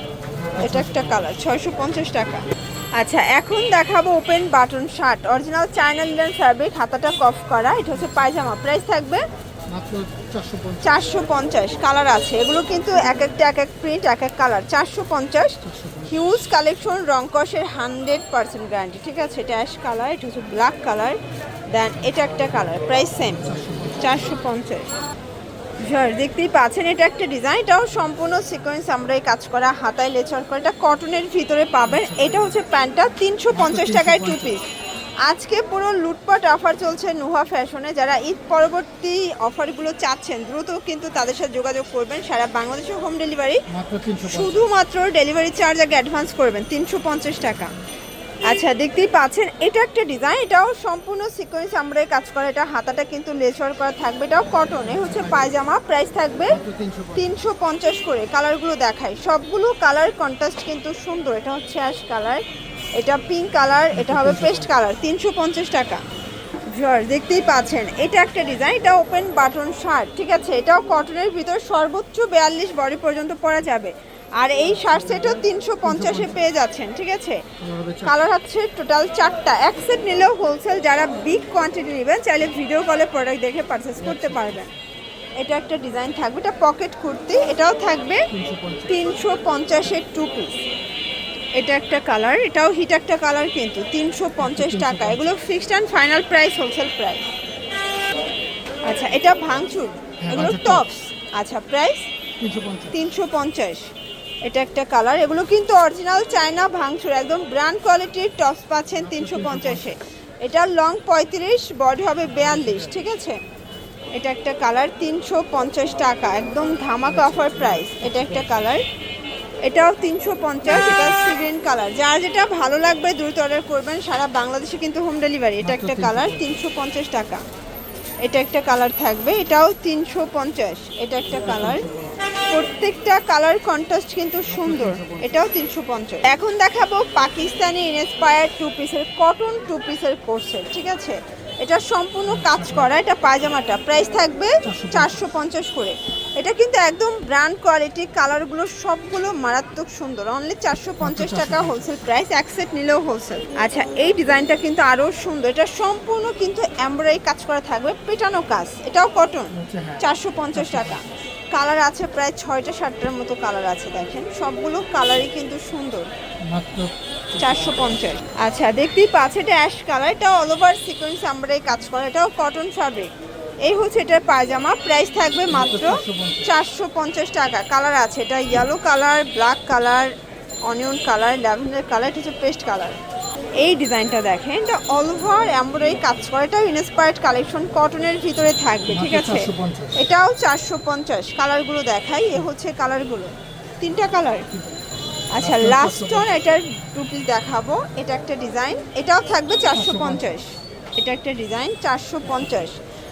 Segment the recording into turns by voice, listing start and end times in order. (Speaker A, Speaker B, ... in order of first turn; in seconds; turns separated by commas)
Speaker A: 0.3-1.2, Speaker B: 0.6-9.2, Speaker A: 8.0-8.3, Speaker A: 9.7-10.9, Speaker B: 10.8-21.2, Speaker A: 15.6-16.1, Speaker B: 21.7-23.5, Speaker A: 23.4-24.3, Speaker B: 24.0-24.9, Speaker B: 25.8-34.6, Speaker A: 31.9-32.6, Speaker A: 33.5-34.6, Speaker B: 35.3-43.6, Speaker A: 43.7-44.7, Speaker B: 44.2-47.7, Speaker B: 48.5-56.6, Speaker A: 54.9-55.5, Speaker A: 56.5-57.3, Speaker B: 57.2-62.4, Speaker B: 63.0-66.0, Speaker A: 63.9-64.7, Speaker B: 66.7-77.4, Speaker A: 75.8-76.5, Speaker A: 77.6-78.2, Speaker B: 78.0-84.7, Speaker A: 84.0-84.6, Speaker B: 85.4-88.3, Speaker A: 88.3-88.9, Speaker B: 88.9-90.6, Speaker B: 91.6-97.3, Speaker A: 94.4-95.3, Speaker B: 98.8-102.1, Speaker A: 100.2-100.9, Speaker A: 102.4-103.0, Speaker B: 102.9-103.9, Speaker B: 104.5-113.4, Speaker A: 109.0-110.0, Speaker A: 112.3-113.1, Speaker B: 114.2-118.8, Speaker A: 117.1-118.6, Speaker B: 119.6-127.4, Speaker A: 120.7-121.2, Speaker A: 125.6-126.6, Speaker B: 128.2-131.9, Speaker A: 131.3-132.2, Speaker B: 132.5-166.1, Speaker A: 134.4-135.3, Speaker A: 142.3-142.9, Speaker A: 144.6-145.3, Speaker A: 151.0-151.9, Speaker A: 159.5-161.0, Speaker A: 166.5-167.9, Speaker B: 167.4-173.1, Speaker B: 173.6-180.1, Speaker A: 175.5-176.5, Speaker B: 180.7-183.0, Speaker B: 183.6-194.5, Speaker A: 188.9-190.0, Speaker A: 194.5-194.8, Speaker B: 195.3-202.8, Speaker A: 195.4-196.3, Speaker A: 199.7-200.3